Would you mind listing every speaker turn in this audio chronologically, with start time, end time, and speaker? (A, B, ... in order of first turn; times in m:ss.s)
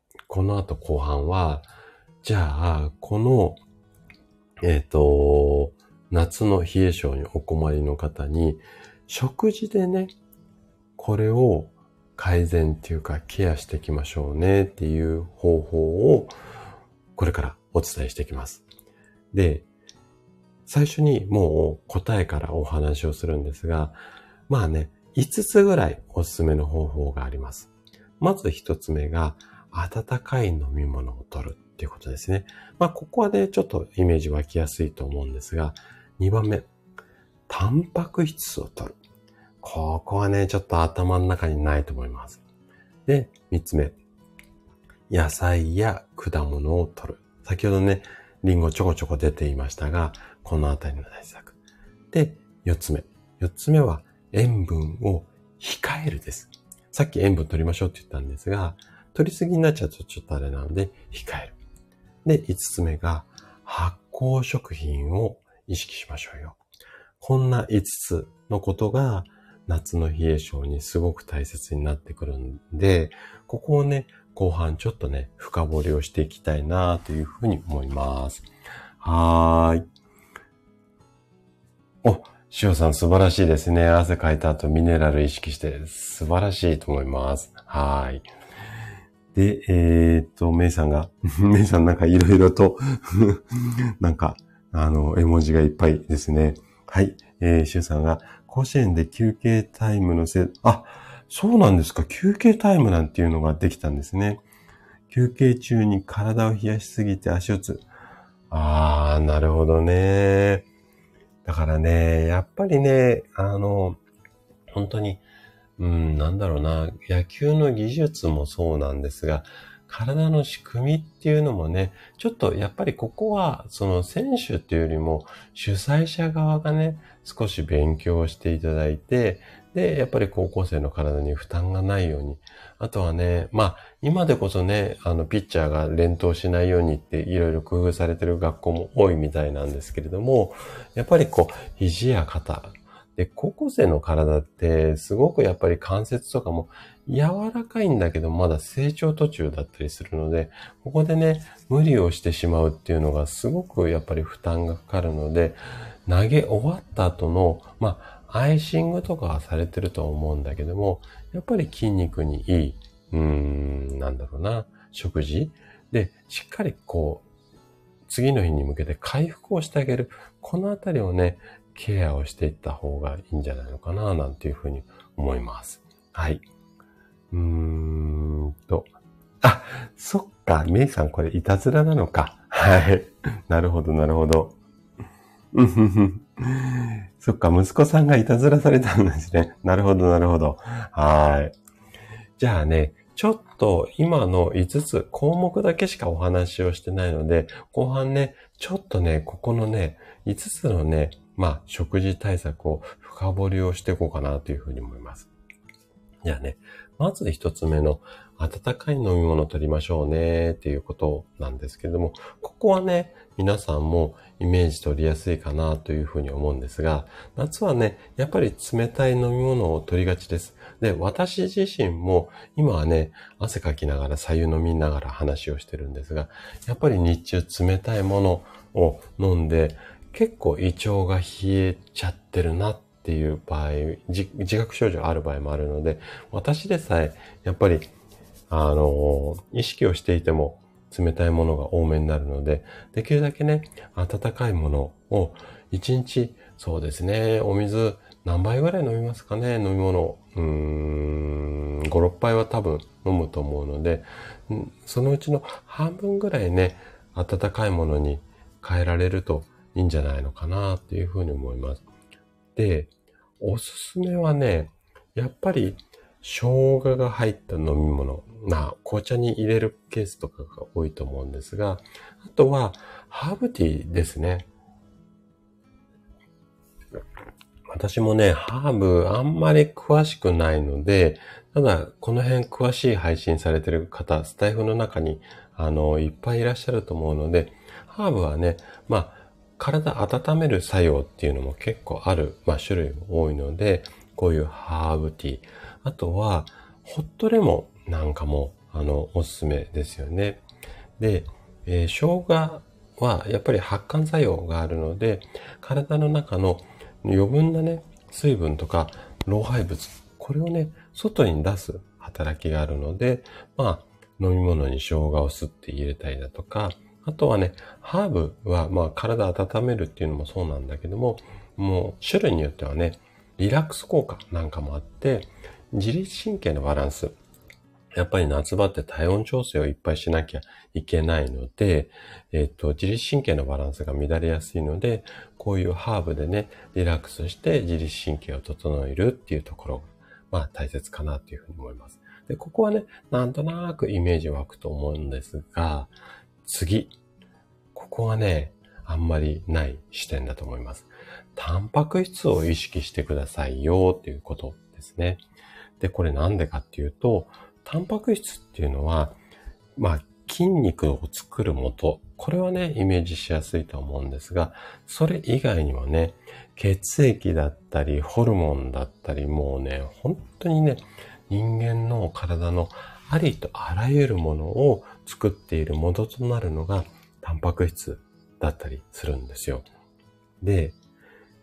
0:00.3-0:01.7 A
0:02.2-0:03.6 A
0:04.6-0:10.1 A
0:11.0-0:16.4 A
0:17.2-0:18.6 A
0:19.3-0:19.7 A
0:20.7-0:36.7 A
0:37.5-0:39.0 A
0:39.6-0:42.4 A
0:43.1-0:44.0 A
0:45.1-0:51.6 A
0:52.1-1:01.6 A
1:02.2-1:06.6 A
1:07.2-1:18.5 A
1:19.0-1:19.8 A
1:22.0-1:28.2 A
1:29.3-1:44.4 A
1:45.1-1:47.9 A
1:48.5-1:50.7 A
1:51.4-1:54.0 A
1:54.8-1:55.2 A
1:55.8-2:47.3 A
2:48.1-2:56.4 A
2:57.3-2:58.9 A
2:59.4-3:04.6 A
3:05.5-3:11.6 A
3:12.4-3:25.3 A
3:26.2-3:57.9 A
3:58.5-4:21.8 A
4:22.6-4:34.5 A
4:37.7-5:00.4 A
5:01.0-5:27.2 A
5:28.0-5:47.0 A
5:47.7-5:55.2 A
5:55.8-5:59.2 A
5:59.8-6:19.7 A
6:20.4-6:20.8 A